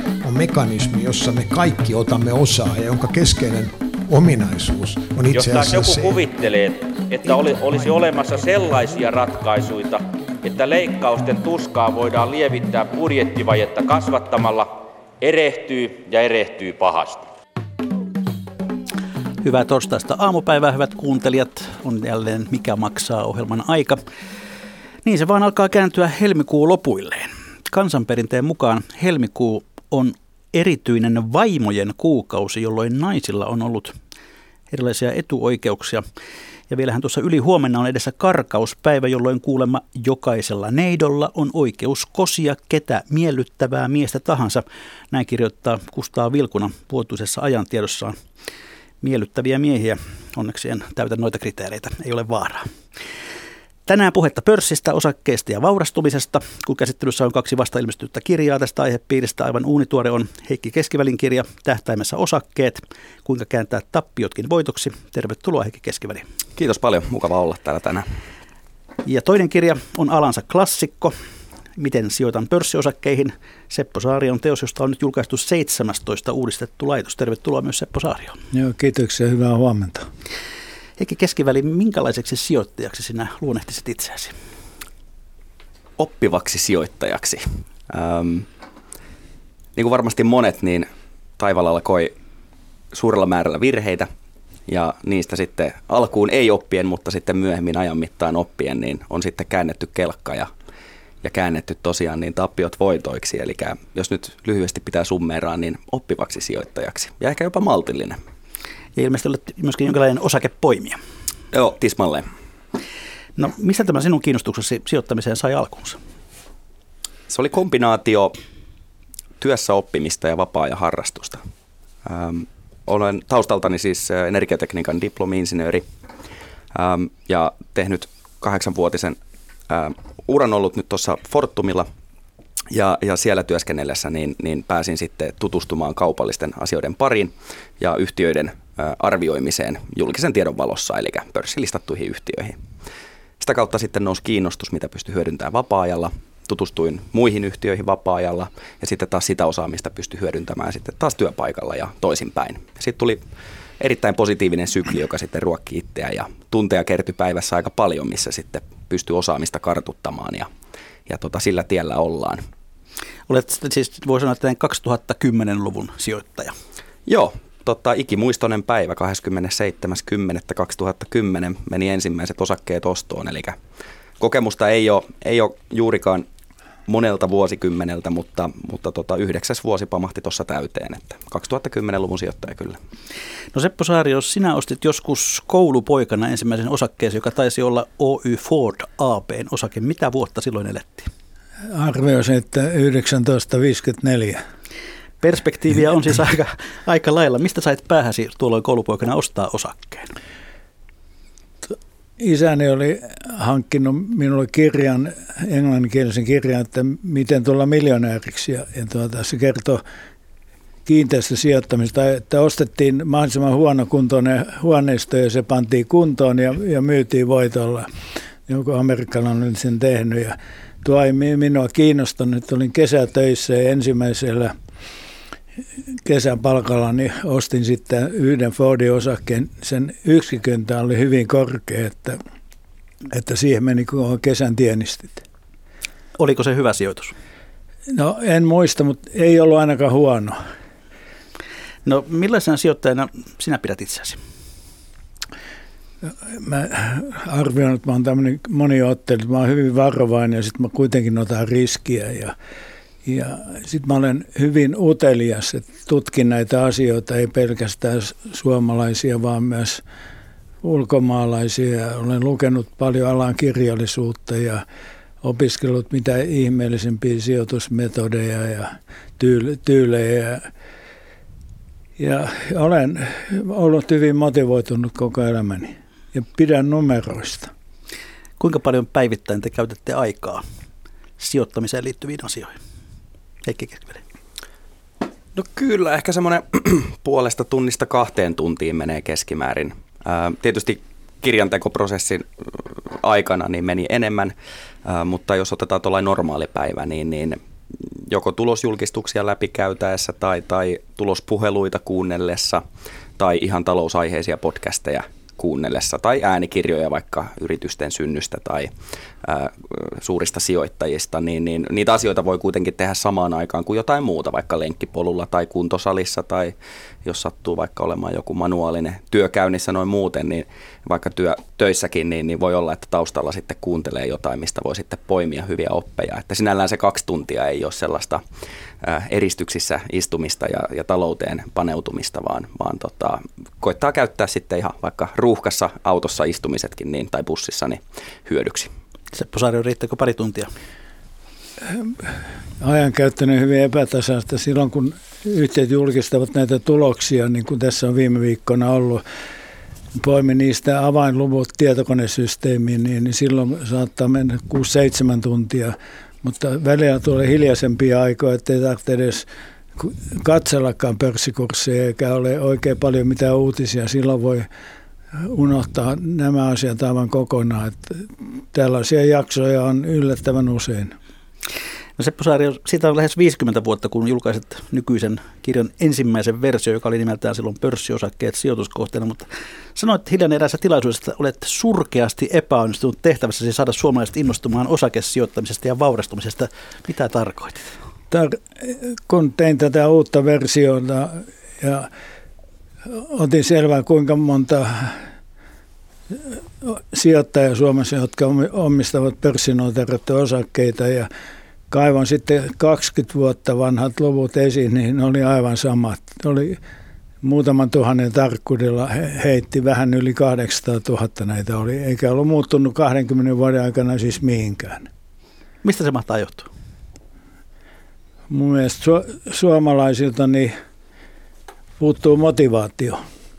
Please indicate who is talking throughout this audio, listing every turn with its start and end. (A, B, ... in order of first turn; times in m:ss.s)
0:00.2-0:06.2 A
0:05.3-0:17.3 B
0:19.4-0:24.0 C
0:25.0-0:34.0 C
0:34.7-0:36.0 C
0:36.7-0:48.2 C
0:49.0-0:52.7 C
0:53.9-1:06.2 C
1:06.6-1:08.1 D
1:09.0-1:11.2 C
1:11.8-1:18.4 C
1:18.5-1:20.1 E
1:21.0-1:24.4 C
1:26.0-1:28.5 D
1:29.8-1:30.9 D
1:31.4-1:32.1 D
1:32.9-1:34.1 D
1:34.7-1:40.5 D
1:41.2-1:48.2 D
1:49.0-1:51.0 C
1:51.5-1:52.3 D
1:53.4-1:56.0 C
1:57.3-1:58.4 D
1:59.4-2:01.4 D
2:02.0-2:05.8 D
2:06.8-2:11.9 D
2:12.7-2:22.6 D
2:23.4-2:33.2 D
2:33.8-2:40.5 D
2:41.1-2:42.4 D
2:43.3-2:46.6 C
2:47.1-2:53.6 D
2:54.2-2:56.2 D
2:56.9-3:02.8 D
3:03.5-3:11.1 C
3:11.7-3:14.4 E
3:15.2-3:20.1 C
3:21.6-3:29.8 E
3:30.9-3:37.9 E
3:38.5-3:44.5 E
3:46.0-3:52.2 E
3:53.1-3:55.2 E
3:56.2-3:57.1 C
3:57.9-4:00.4 E
4:01.8-4:04.2 C
4:06.1-4:12.3 E
4:13.0-4:19.8 E
4:20.6-4:24.6 E
4:25.2-4:30.5 E
4:32.0-4:37.5 E
4:38.4-4:40.4 C
4:41.2-4:42.6 C
4:43.4-4:44.0 C
4:45.4-4:54.3 D
4:54.8-4:57.4 D
4:58.1-5:02.6 D
5:03.2-5:08.7 D
5:09.2-5:28.2 D
5:28.8-5:38.7 D
5:39.1-5:40.5 C
5:41.6-5:49.0 E
5:50.0-5:59.3 E
5:59.8-6:04.5 E
6:05.2-6:10.9 E
6:12.0-6:27.7 C
6:28.1-6:31.9 E
6:32.8-6:35.0 E
6:36.1-6:41.1 E
6:41.7-6:46.6 E
6:47.2-6:54.9 E
6:55.6-6:56.5 C
6:58.3-7:00.5 E
7:01.8-7:03.0 E